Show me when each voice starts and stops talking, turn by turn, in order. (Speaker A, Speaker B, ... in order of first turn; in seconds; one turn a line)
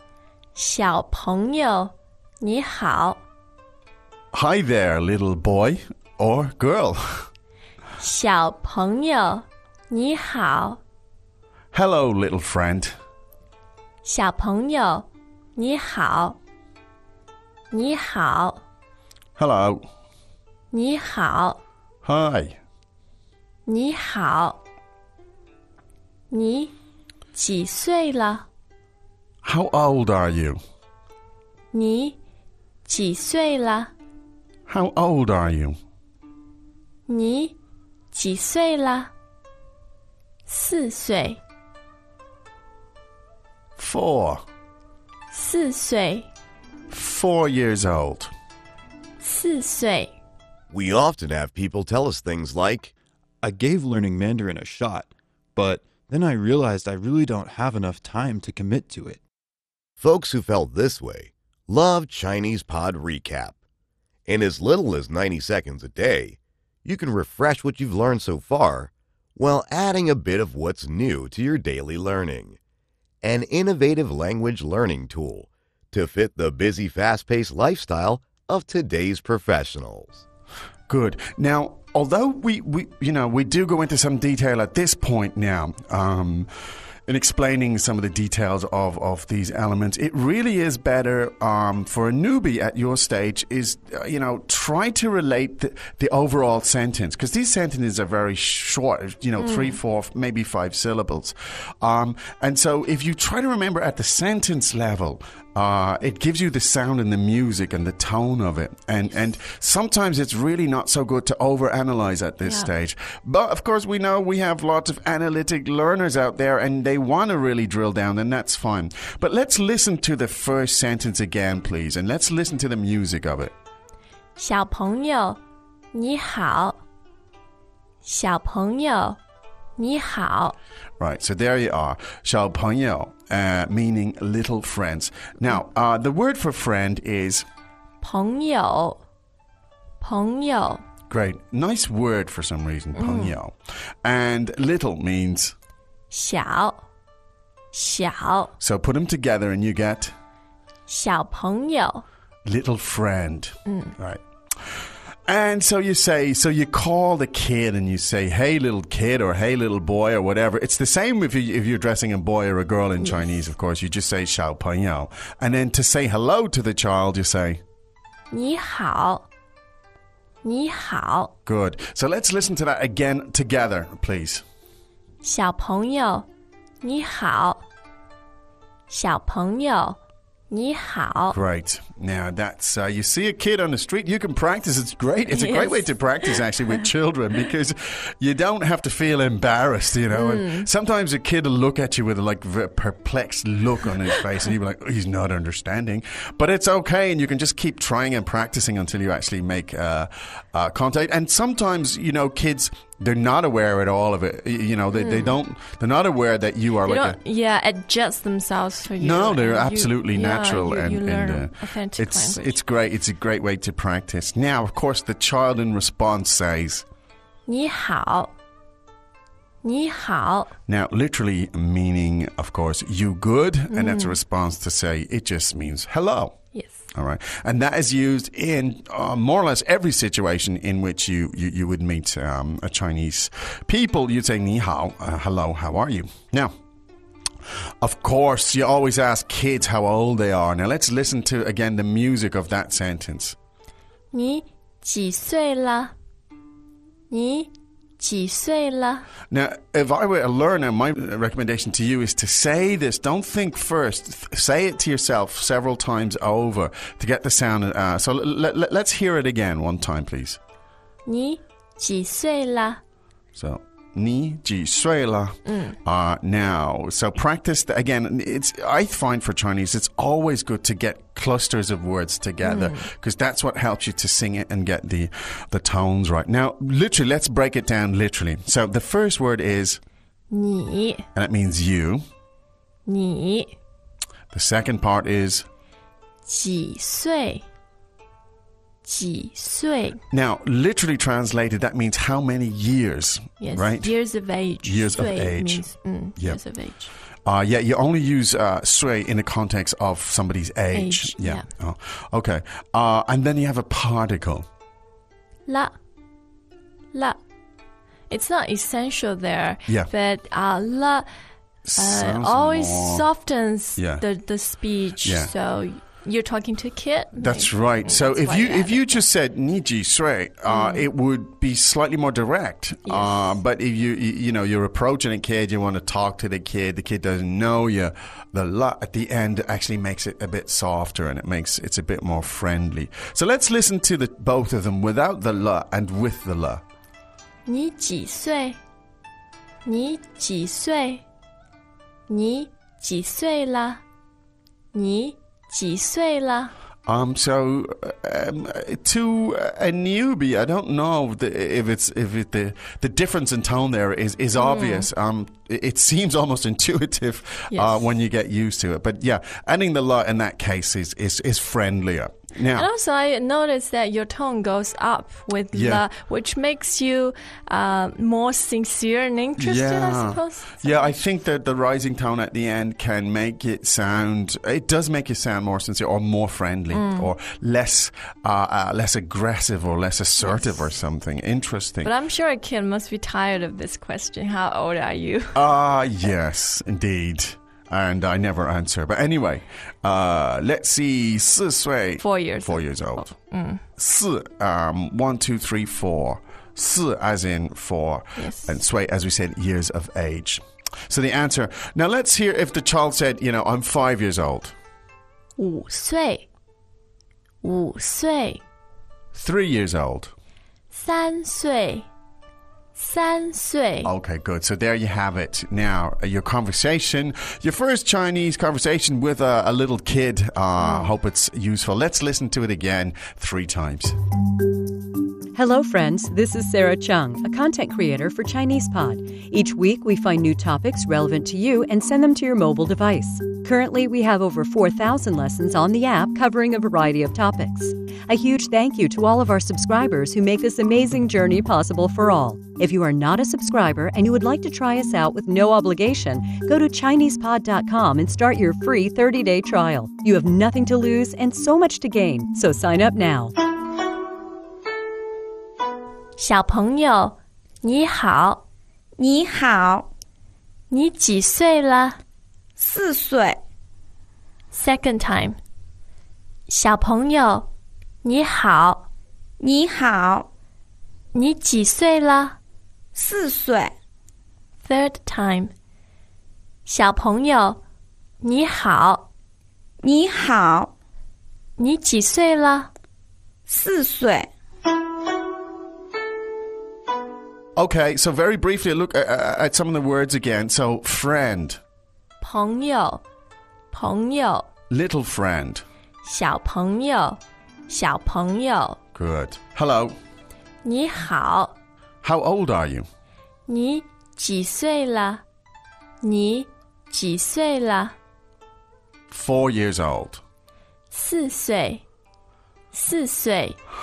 Speaker A: 0.5-3.2
Speaker B: 4.3-7.3
Speaker A: 8.0-10.8
Speaker B: 11.7-12.9
Speaker A: 14.0-16.4
Speaker A: 17.7-18.6
Speaker B: 19.4-19.8
Speaker A: 20.7-21.6
Speaker B: 22.0-22.6
Speaker A: 23.6-24.6
Speaker A: 26.3-26.7
Speaker A: 27.3-28.5
Speaker B: 29.4-30.6
Speaker A: 31.7-32.2
Speaker A: 32.8-33.9
Speaker B: 34.7-35.8
Speaker A: 37.1-37.5
Speaker A: 38.1-39.1
Speaker A: 40.5-41.4
Speaker B: 43.8-44.4
Speaker A: 45.3-46.3
Speaker B: 46.9-48.3
Speaker A: 49.2-50.1
Speaker C: 50.7-52.9
Speaker D: 53.4-59.2
Speaker C: 60.0-63.5
Speaker C: 64.3-72.6
Speaker C: 73.2-80.2
Speaker B: 80.9-86.5
Speaker B: 87.0-123.5
Speaker A: 99.4-99.8
Speaker A: 112.4-112.7
Speaker A: 124.4-125.4
Speaker A: 125.9-126.8
Speaker A: 128.0-129.2
Speaker A: 129.8-130.6
Speaker B: 131.0-137.4
Speaker A: 138.0-139.0
Speaker A: 140.0-140.8
Speaker B: 141.1-145.5
Speaker A: 142.9-143.3
Speaker A: 146.1-146.8
Speaker A: 147.7-148.5
Speaker B: 148.6-150.1
Speaker A: 150.9-152.0
Speaker B: 152.4-154.2
Speaker A: 153.7-153.9
Speaker B: 155.2-167.6
Speaker A: 163.0-163.4
Speaker A: 168.3-169.2
Speaker A: 170.4-171.3
Speaker B: 171.4-174.4
Speaker A: 175.2-176.3
Speaker A: 176.8-177.6
Speaker A: 178.9-180.0
Speaker A: 180.5-181.4
Speaker B: 181.3-207.2
Speaker A: 185.3-186.5
Speaker A: 190.1-190.7
Speaker A: 204.9-205.3
Speaker A: 206.8-212.6
Speaker B: 209.0-216.8
Speaker A: 217.4-218.3
Speaker A: 219.6-220.5
Speaker B: 220.7-236.5
Speaker A: 223.7-224.2
Speaker A: 226.5-226.8
Speaker B: 237.8-243.3
Speaker A: 244.1-245.9
Speaker A: 247.1-249.1
Speaker B: 249.3-260.4
Speaker A: 261.0-262.8
Speaker B: 263.3-279.8
Speaker A: 265.5-265.7
Speaker A: 272.4-272.9
Speaker A: 280.3-281.1
Speaker B: 281.1-282.0
Speaker A: 282.9-283.5
Speaker B: 284.3-285.4
Speaker A: 286.2-287.4
Speaker A: 288.8-290.0
Speaker B: 290.1-296.6
Speaker A: 293.4-296.9
Speaker B: 297.2-304.4
Speaker A: 300.7-301.4
Speaker A: 305.5-305.8
Speaker A: 306.9-307.2
Speaker A: 308.1-311.1
Speaker B: 309.6-309.9
Speaker B: 311.6-313.2
Speaker A: 311.8-319.0
Speaker B: 313.8-315.3
Speaker B: 317.1-336.6
Speaker A: 320.5-320.9
Speaker A: 322.9-323.4
Speaker A: 337.4-338.6
Speaker A: 339.6-341.0
Speaker A: 342.1-343.8
Speaker A: 344.7-346.5
Speaker B: 346.9-362.7
Speaker A: 354.4-354.9
Speaker A: 357.5-357.9
Speaker A: 362.5-370.9
Speaker B: 365.5-365.8
Speaker B: 369.4-381.9
Speaker A: 376.7-377.1
Speaker A: 380.2-380.6
Speaker A: 381.8-385.4
Speaker B: 385.3-404.5
Speaker A: 392.0-393.6
Speaker A: 398.2-398.6
Speaker A: 405.4-406.2
Speaker A: 407.4-408.4
Speaker B: 409.1-410.1
Speaker A: 410.7-411.9
Speaker A: 412.8-413.9
Speaker B: 413.8-423.9
Speaker A: 420.6-420.9
Speaker E: 425.3-453.3
Speaker A: 456.2-458.4
Speaker F: 459.0-459.9
Speaker A: 460.7-462.0
Speaker F: 462.6-463.4
Speaker A: 464.5-465.4
Speaker A: 466.5-467.5
Speaker A: 468.0-468.9
Speaker F: 469.4-470.3
Speaker A: 471.1-472.4
Speaker F: 472.9-473.7
Speaker A: 474.6-475.5
Speaker A: 476.6-477.6
Speaker A: 478.2-479.1
Speaker F: 479.8-480.7
Speaker A: 481.6-482.7
Speaker F: 483.5-484.3
Speaker B: 487.6-491.6
Speaker A: 492.2-493.0
Speaker A: 493.7-494.5
Speaker B: 494.7-495.6
Speaker A: 496.0-498.8
Speaker B: 498.9-499.9
Speaker A: 500.6-501.5
Speaker B: 502.0-502.9
Speaker A: 503.5-505.2
Speaker A: 506.0-507.9
Speaker B: 509.1-510.2
Speaker A: 510.9-511.8
Speaker A: 512.7-513.6